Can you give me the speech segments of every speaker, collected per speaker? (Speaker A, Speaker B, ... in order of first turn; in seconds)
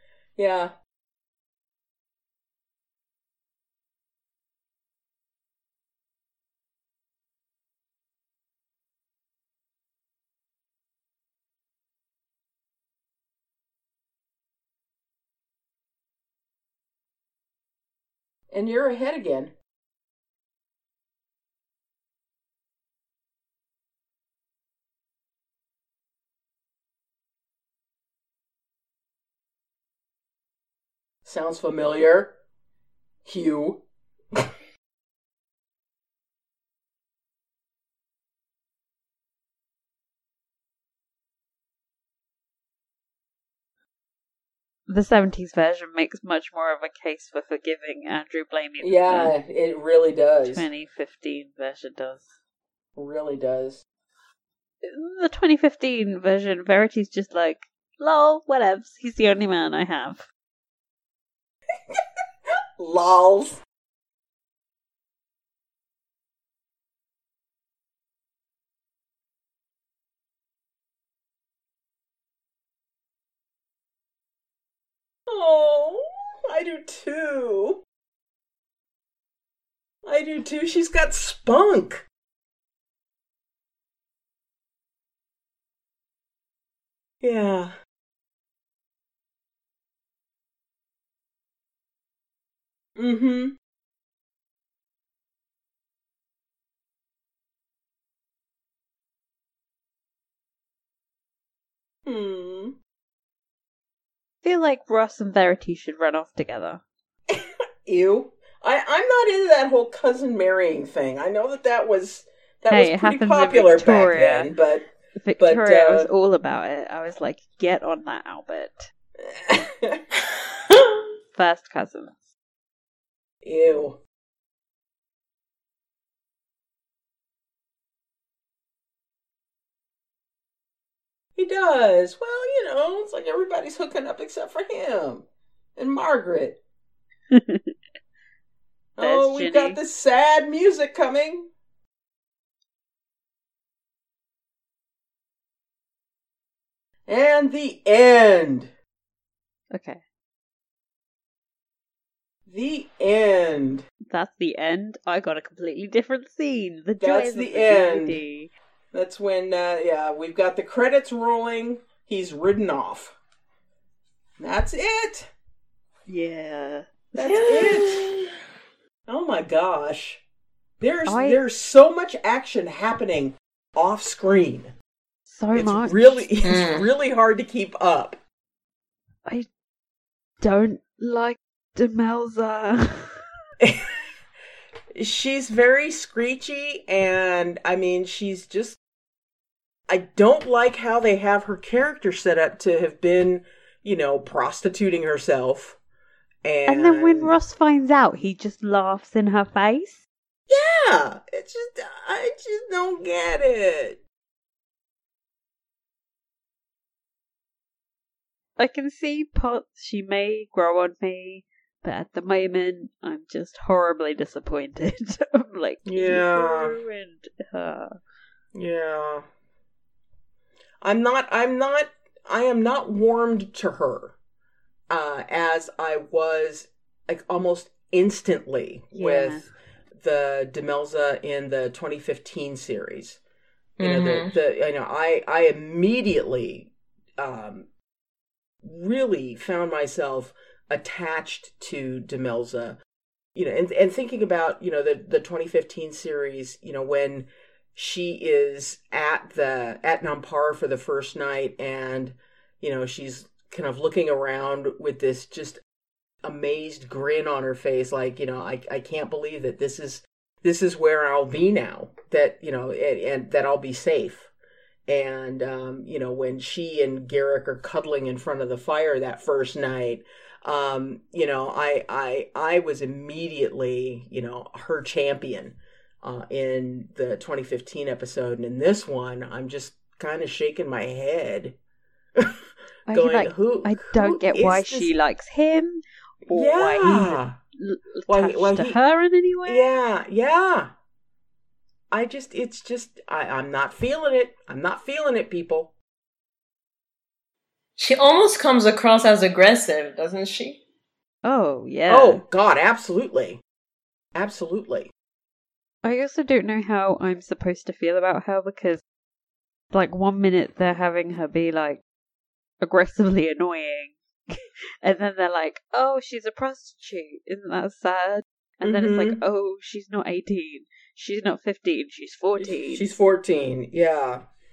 Speaker A: 0.4-0.7, 18.5-19.5, 31.2-32.3, 33.2-33.8, 48.8-50.6, 53.0-53.8, 62.8-63.6, 75.3-77.8, 80.1-82.0, 87.2-87.7, 93.0-93.6, 102.1-102.8, 107.3-114.9, 115.4-116.1, 119.2-120.0, 123.5-124.0, 131.4-135.2, 135.8-136.6, 139.0-141.5, 147.1-148.7, 152.5-153.8, 157.0-158.2, 158.9-163.2, 164.4-165.3, 167.2-168.0, 169.1-170.2, 170.8-174.7, 175.5-178.2, 183.6-183.9, 184.9-188.8, 189.9-195.8, 196.4-197.3, 200.5-204.0, 215.9-216.8, 218.6-219.2, 220.8-224.2, 224.9-233.2, 233.8-237.7, 238.6-242.8, 243.3-255.6, 256.2-264.3, 264.9-281.6, 282.9-284.9, 286.3-287.4, 288.1-288.8, 289.5-290.7, 291.9-295.8, 301.9-303.4, 304.1-304.9, 318.6-319.2, 322.4-324.2
Speaker B: 44.9-49.3, 50.5-52.3, 54.8-60.3, 104.4-106.8, 112.7-114.5, 115.2-118.9, 121.3-122.2, 137.3-137.7, 139.0-139.8, 149.7-150.0, 154.1-158.5, 166.1-167.9, 171.1-171.4, 175.3-176.3, 180.4-183.2, 196.7-200.1, 208.6-218.0, 228.9-229.5, 282.9-289.8, 301.2-302.2, 305.8-308.8, 309.7-311.8, 312.6-322.9
Speaker C: 167.3-168.2, 176.4-176.9, 233.8-234.3, 297.8-300.6